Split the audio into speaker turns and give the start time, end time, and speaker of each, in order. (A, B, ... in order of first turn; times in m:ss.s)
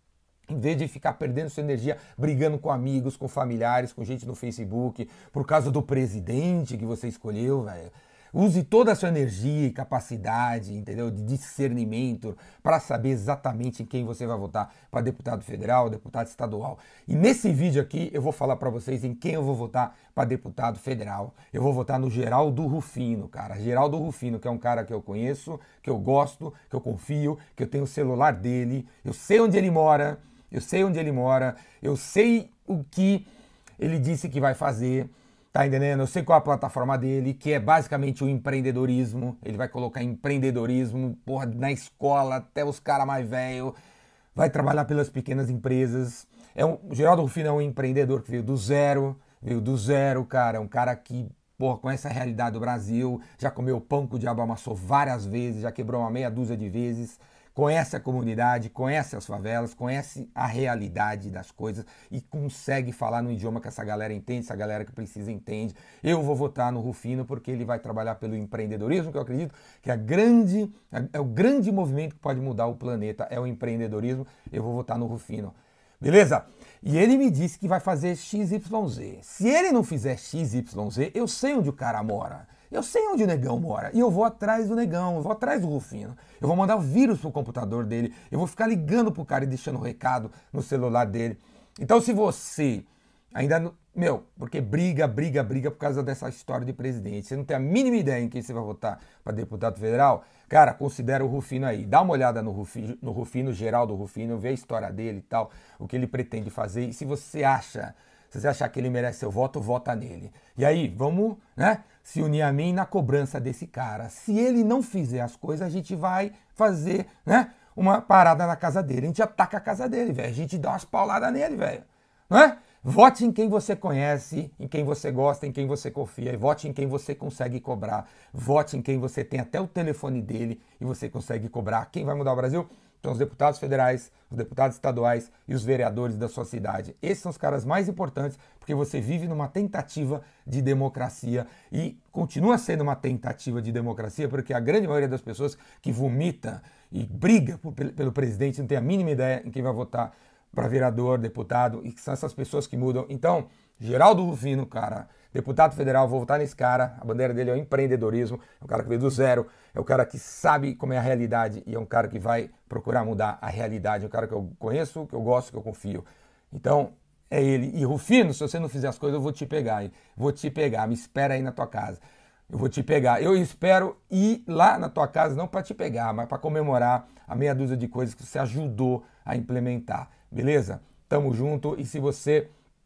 0:00.5-0:33.3 A
0:33.8-0:43.8 A
0:44.4-3:02.5 A